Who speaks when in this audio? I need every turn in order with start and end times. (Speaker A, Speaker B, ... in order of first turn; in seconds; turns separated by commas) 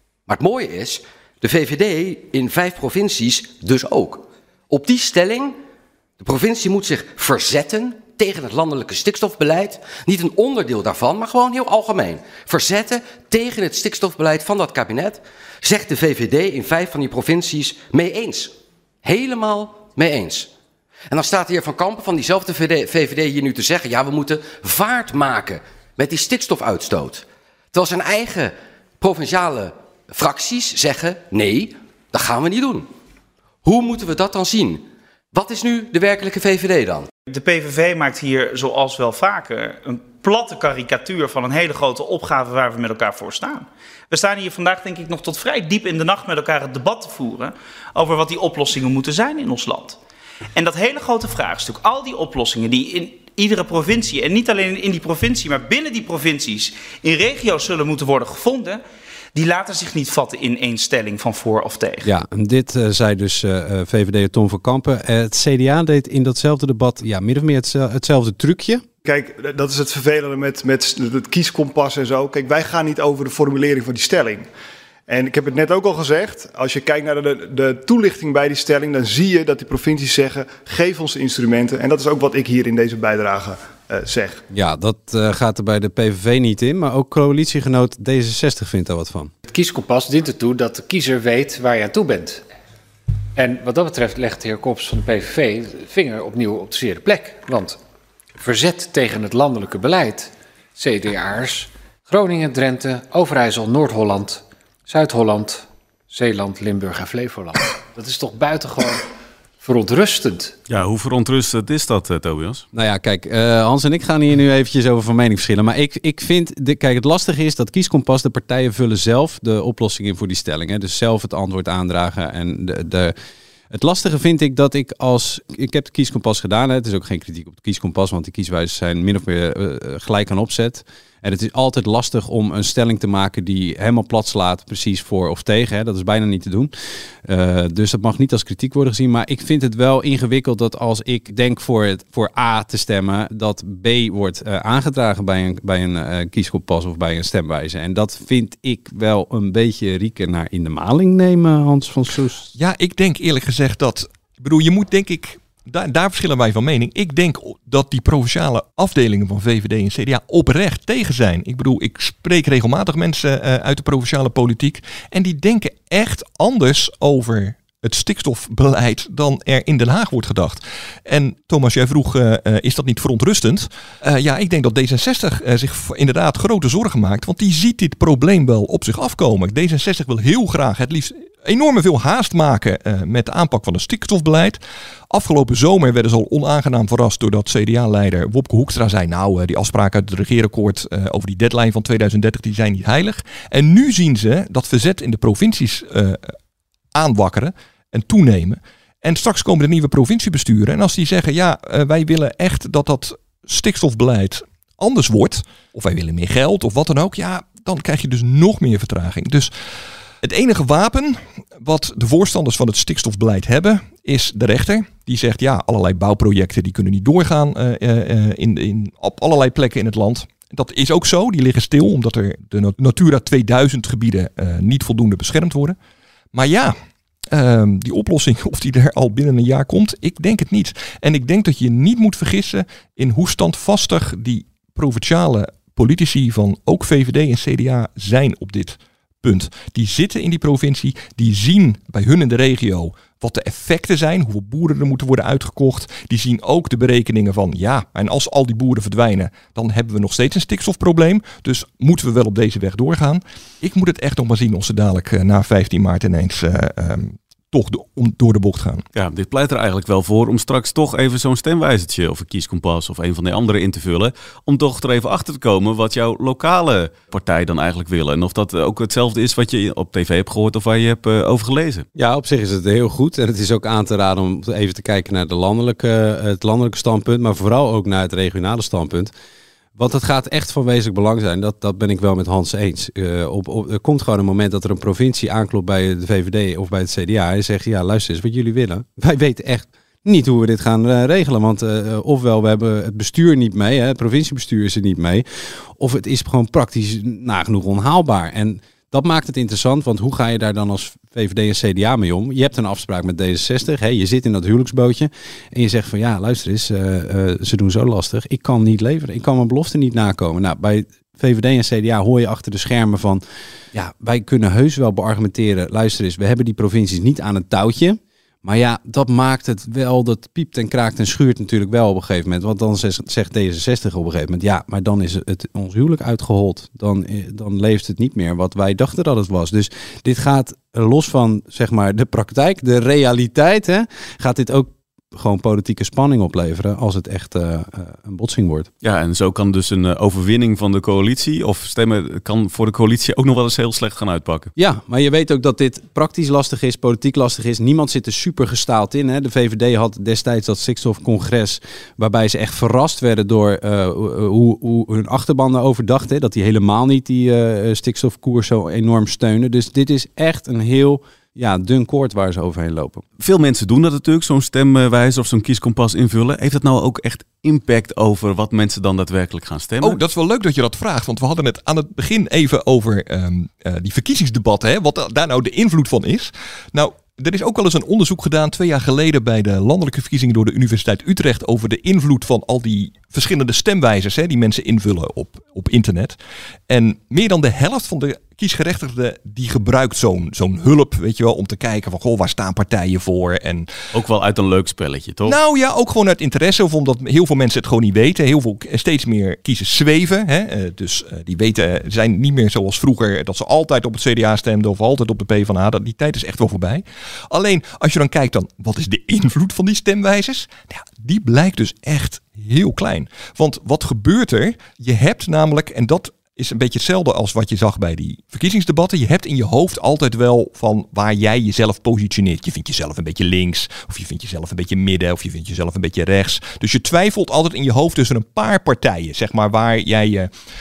Speaker A: 0.3-5.6, Speaker A: 6.2-20.5, Speaker A: 21.1-32.9, Speaker A: 33.6-37.1, Speaker B: 37.3-50.0, Speaker B: 50.5-58.8, Speaker B: 59.3-62.1, Speaker C: 62.0-68.8, Speaker D: 69.0-74.5, Speaker D: 75.1-84.4, Speaker C: 84.5-89.3, Speaker E: 89.4-92.4, Speaker E: 93.3-97.8, Speaker E: 98.3-109.1, Speaker E: 109.6-110.6, Speaker F: 110.7-112.7, Speaker C: 112.7-123.1, Speaker C: 123.7-136.7, Speaker C: 137.2-152.5, Speaker G: 152.6-184.6, Speaker G: 185.1-196.3, Speaker G: 196.9-209.5, Speaker G: 210.2-225.8, Speaker G: 226.3-226.7, Speaker G: 227.3-258.8, Speaker F: 258.9-271.9, Speaker C: 271.9-279.1, Speaker C: 279.8-313.2, Speaker C: 313.7-338.7, Speaker F: 338.8-344.5, Speaker C: 344.6-363.0, Speaker F: 363.2-370.0, Speaker G: 369.8-386.2, Speaker G: 386.7-393.7, Speaker F: 393.9-395.4, Speaker G: 395.2-430.3